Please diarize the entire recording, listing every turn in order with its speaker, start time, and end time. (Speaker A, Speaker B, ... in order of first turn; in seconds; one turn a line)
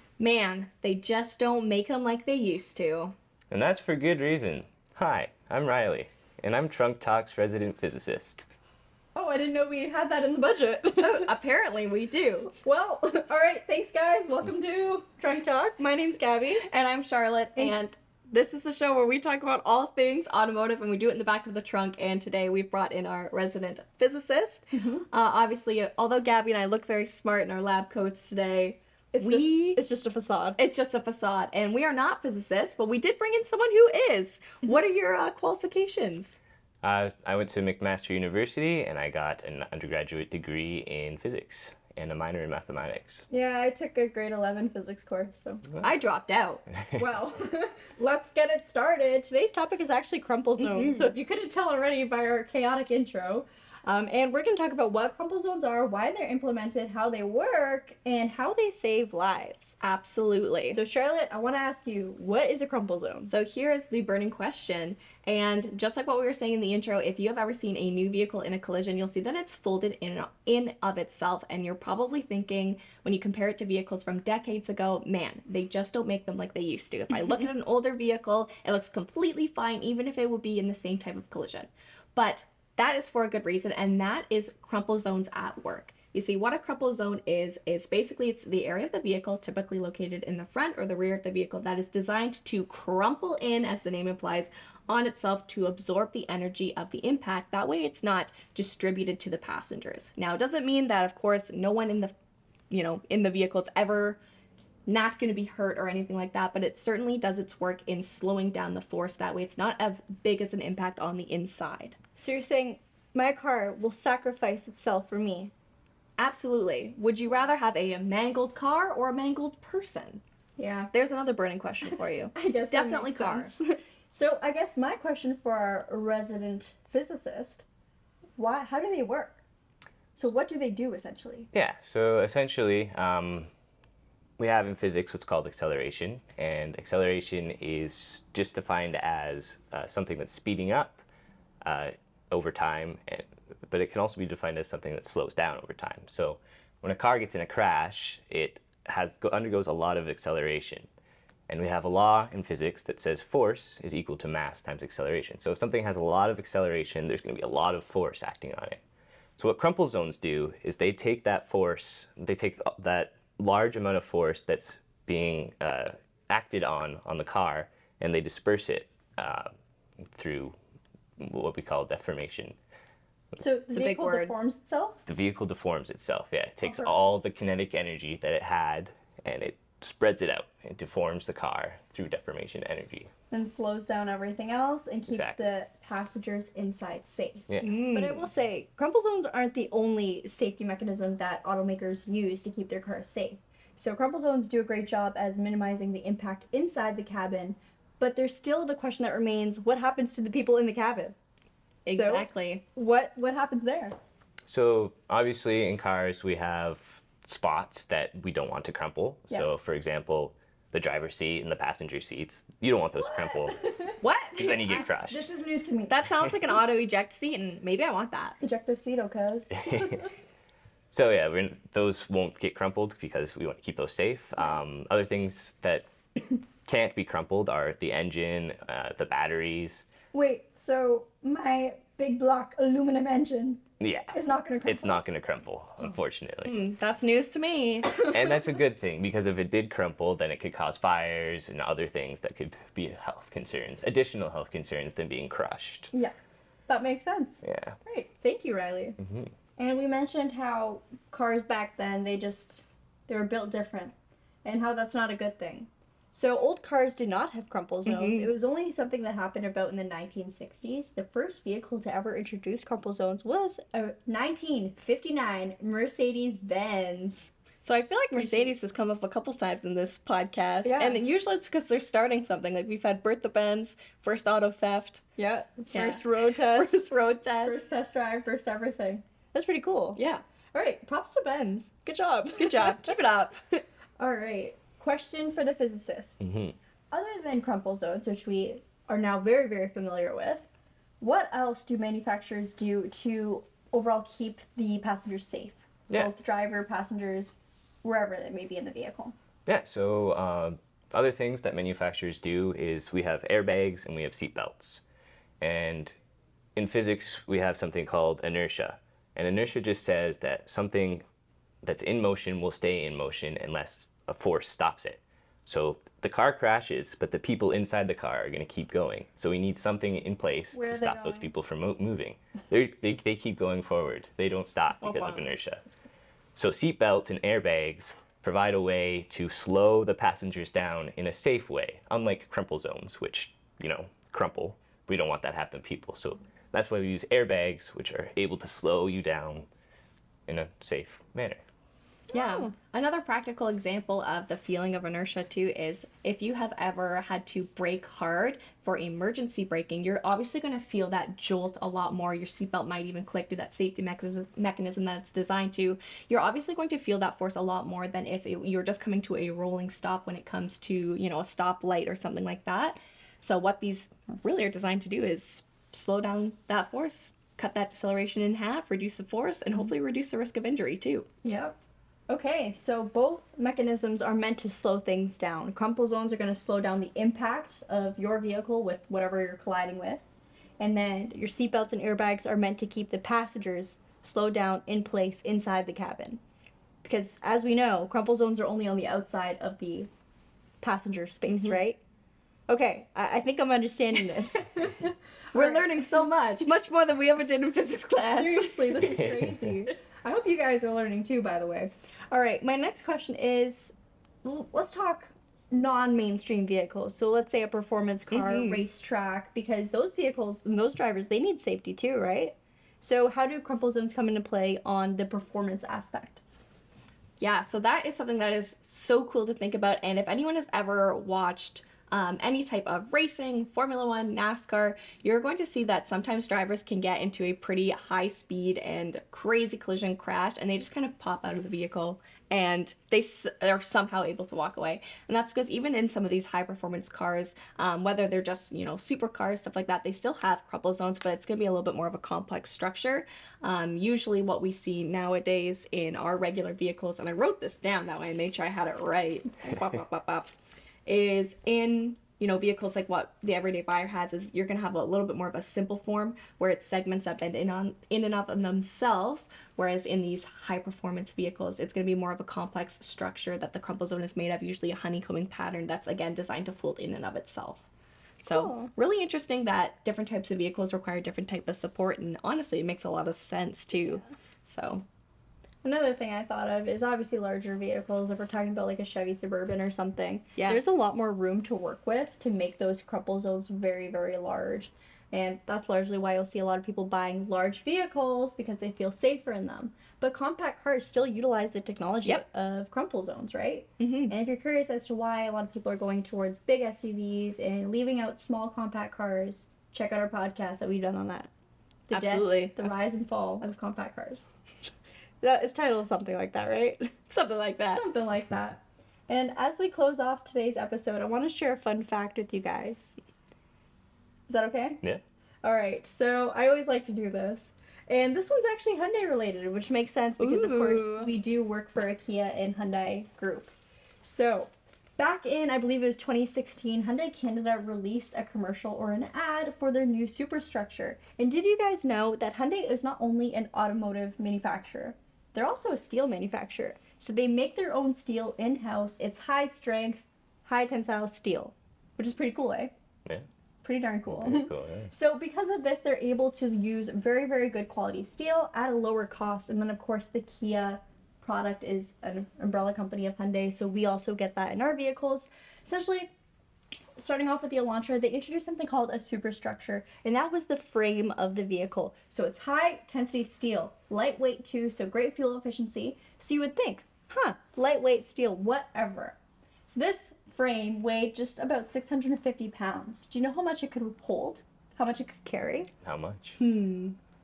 Speaker A: 0.2-3.1
Speaker B: 3.5-8.4
Speaker C: 9.2-11.3
Speaker A: 11.0-12.5
Speaker C: 12.5-16.6
Speaker A: 16.6-29.8
Speaker C: 24.7-25.0
Speaker C: 29.1-30.6
Speaker A: 30.6-36.4
Speaker B: 36.8-43.2
Speaker C: 43.3-45.7
Speaker A: 45.8-46.6
Speaker C: 46.9-59.8
Speaker A: 50.6-51.1
Speaker A: 59.8-60.8
Speaker C: 60.7-63.3
Speaker A: 63.3-102.1
Speaker A: 102.7-104.2
Speaker A: 104.8-112.0
Speaker C: 112.2-115.5
Speaker A: 116.2-120.2
Speaker C: 120.6-120.9
Speaker A: 120.9-123.6
Speaker C: 122.3-123.5
Speaker C: 124.1-127.7
Speaker C: 128.4-129.4
Speaker C: 130.2-131.5
Speaker B: 131.5-133.5
Speaker B: 134.4-141.0
Speaker B: 141.6-150.9
Speaker B: 151.5-158.8
Speaker B: 159.4-169.5
Speaker B: 170.1-170.6
Speaker B: 171.2-172.6
Speaker C: 173.4-175.0
Speaker A: 173.7-174.3
Speaker B: 175.1-183.1
Speaker C: 176.6-177.2
Speaker C: 183.3-201.1
Speaker B: 185.1-185.4
Speaker A: 187.6-188.2
Speaker A: 201.8-202.6
Speaker C: 201.9-203.9
Speaker B: 204.4-213.6
Speaker C: 213.0-214.0
Speaker A: 214.0-214.7
Speaker B: 214.4-215.3
Speaker C: 214.7-215.9
Speaker A: 215.9-218.3
Speaker C: 218.4-220.1
Speaker B: 220.9-225.9
Speaker B: 226.7-229.8
Speaker C: 230.1-233.6
Speaker B: 233.8-236.5
Speaker C: 234.1-235.0
Speaker A: 236.4-238.0
Speaker B: 238.0-245.9
Speaker C: 246.7-249.0
Speaker B: 247.4-247.8
Speaker B: 249.0-249.3
Speaker C: 249.6-253.9
Speaker C: 254.4-267.3
Speaker A: 257.9-258.3
Speaker A: 267.6-275.0
Speaker C: 268.1-268.5
Speaker C: 270.6-271.0
Speaker C: 275.2-276.7
Speaker A: 275.7-277.6
Speaker C: 277.4-280.0
Speaker A: 279.9-280.2
Speaker C: 280.5-282.9
Speaker A: 282.4-283.6
Speaker C: 284.0-286.2
Speaker B: 286.2-286.6
Speaker C: 286.9-290.5
Speaker C: 291.0-299.1
Speaker B: 299.5-304.8
Speaker B: 305.4-305.9
Speaker B: 306.6-311.0
Speaker B: 311.6-325.6
Speaker C: 320.5-321.3
Speaker A: 324.8-325.3
Speaker B: 326.4-339.5
Speaker B: 340.3-341.4
Speaker C: 342.1-342.5
Speaker A: 342.1-371.1
Speaker C: 371.2-371.6
Speaker C: 372.1-380.0
Speaker C: 380.6-386.2
Speaker C: 386.8-389.9
Speaker C: 390.6-391.8
Speaker A: 391.3-391.5
Speaker C: 392.5-396.0
Speaker A: 395.3-399.0
Speaker C: 397.9-416.2
Speaker B: 398.8-399.4
Speaker A: 408.1-408.6
Speaker A: 417.2-450.3
Speaker A: 450.9-467.6
Speaker A: 468.2-474.8
Speaker C: 468.3-468.7
Speaker C: 475.6-501.3
Speaker A: 493.8-494.1
Speaker C: 501.9-504.3
Speaker A: 501.9-502.7
Speaker C: 505.2-506.9
Speaker A: 507.1-507.8
Speaker C: 507.7-513.0
Speaker C: 514.3-514.8
Speaker C: 515.4-542.7
Speaker A: 520.2-521.1
Speaker C: 543.6-556.1
Speaker B: 544.1-544.9
Speaker C: 557.0-569.1
Speaker C: 569.7-575.7
Speaker B: 575.8-576.4
Speaker A: 576.4-577.0